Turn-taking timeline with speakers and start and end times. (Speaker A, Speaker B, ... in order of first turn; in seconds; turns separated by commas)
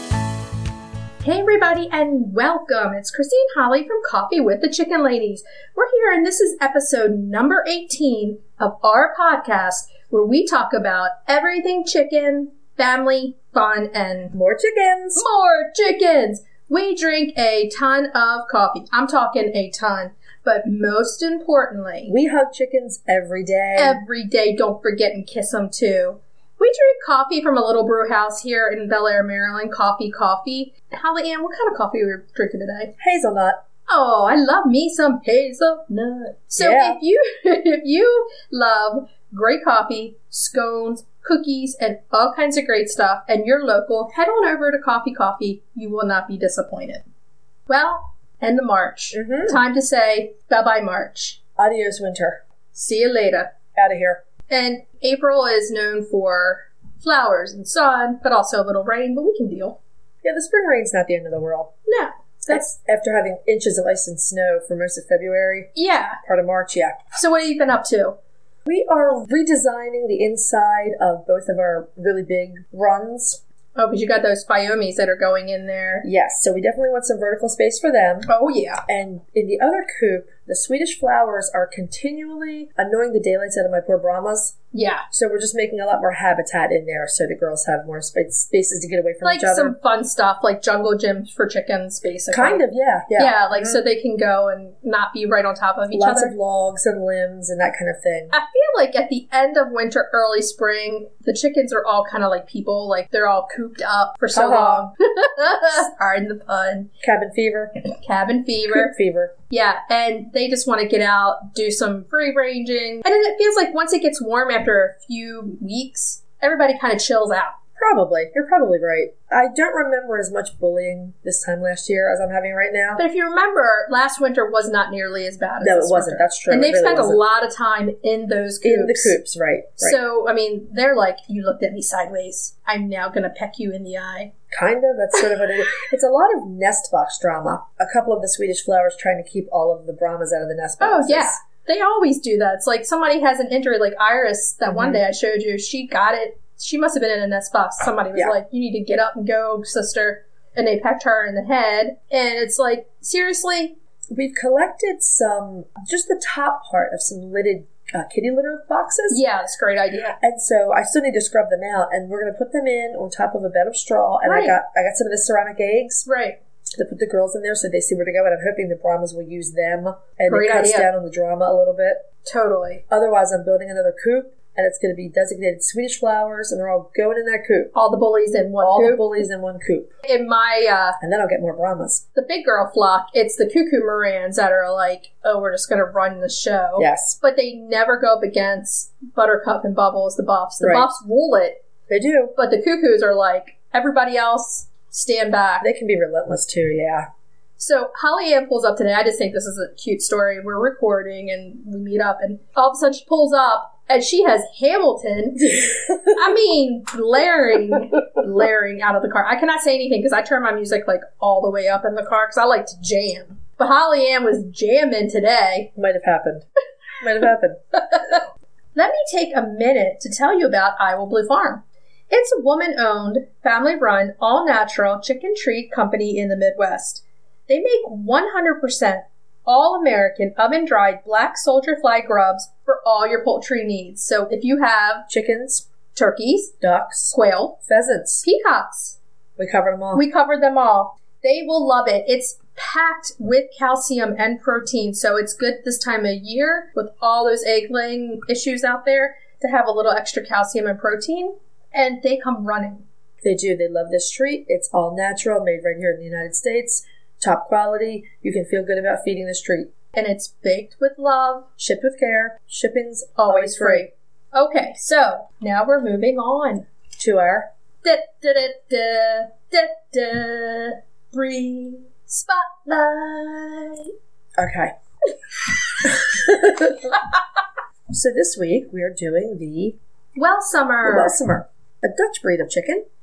Speaker A: 1.2-14.3, Speaker B: 14.3-15.2, Speaker A: 15.2-22.1, Speaker B: 22.1-24.0, Speaker A: 23.8-32.9, Speaker B: 33.0-33.6, Speaker A: 33.9-47.0, Speaker B: 36.6-37.0, Speaker A: 47.7-51.4, Speaker B: 49.1-49.6, Speaker B: 51.6-52.4, Speaker A: 52.7-53.5, Speaker B: 53.8-54.2, Speaker A: 54.5-59.8, Speaker B: 60.2-61.7, Speaker A: 61.9-62.6, Speaker B: 62.5-67.0, Speaker A: 65.8-66.2, Speaker A: 67.2-68.2, Speaker B: 68.7-73.4, Speaker A: 73.8-76.1, Speaker B: 76.0-78.3, Speaker A: 78.3-78.8, Speaker B: 78.9-84.5, Speaker A: 84.7-85.0, Speaker B: 85.1-89.7, Speaker A: 89.2-92.6, Speaker B: 92.3-93.8, Speaker A: 93.2-96.3, Speaker B: 95.9-98.3, Speaker A: 98.3-106.9, Speaker B: 104.3-104.9, Speaker B: 107.0-107.8, Speaker A: 108.0-108.9, Speaker B: 108.7-109.3, Speaker A: 109.5-117.5, Speaker B: 117.8-123.0, Speaker A: 123.0-129.2, Speaker B: 125.6-127.2, Speaker B: 128.6-130.0, Speaker A: 129.8-134.3, Speaker B: 134.5-141.4, Speaker A: 140.8-153.8, Speaker B: 144.7-145.0, Speaker B: 154.1-159.2, Speaker A: 159.1-160.2, Speaker B: 160.2-166.1, Speaker A: 164.2-164.6, Speaker A: 166.1-166.4, Speaker B: 166.8-172.0, Speaker A: 170.3-170.9, Speaker A: 172.2-172.8, Speaker B: 172.9-177.7, Speaker A: 177.7-179.3, Speaker B: 178.6-179.9, Speaker A: 180.0-181.0, Speaker B: 181.0-182.0, Speaker A: 182.2-191.6, Speaker B: 186.8-187.2, Speaker B: 190.6-190.9, Speaker B: 191.9-192.3, Speaker A: 192.4-195.7, Speaker B: 195.6-197.1, Speaker A: 197.6-215.7, Speaker B: 205.6-206.2, Speaker B: 215.8-216.5, Speaker B: 217.0-217.6, Speaker A: 218.8-235.1, Speaker B: 235.1-235.7, Speaker A: 235.9-236.5, Speaker B: 236.6-238.3, Speaker A: 237.1-237.6, Speaker A: 238.2-239.0, Speaker B: 239.4-240.0, Speaker A: 239.9-252.8, Speaker B: 253.2-259.7, Speaker A: 259.9-261.5, Speaker B: 261.6-263.9, Speaker A: 263.2-266.7, Speaker B: 267.0-267.5, Speaker A: 267.8-273.9, Speaker B: 274.4-274.7, Speaker B: 275.8-277.0, Speaker B: 277.9-279.8, Speaker A: 280.2-281.2, Speaker B: 280.8-282.8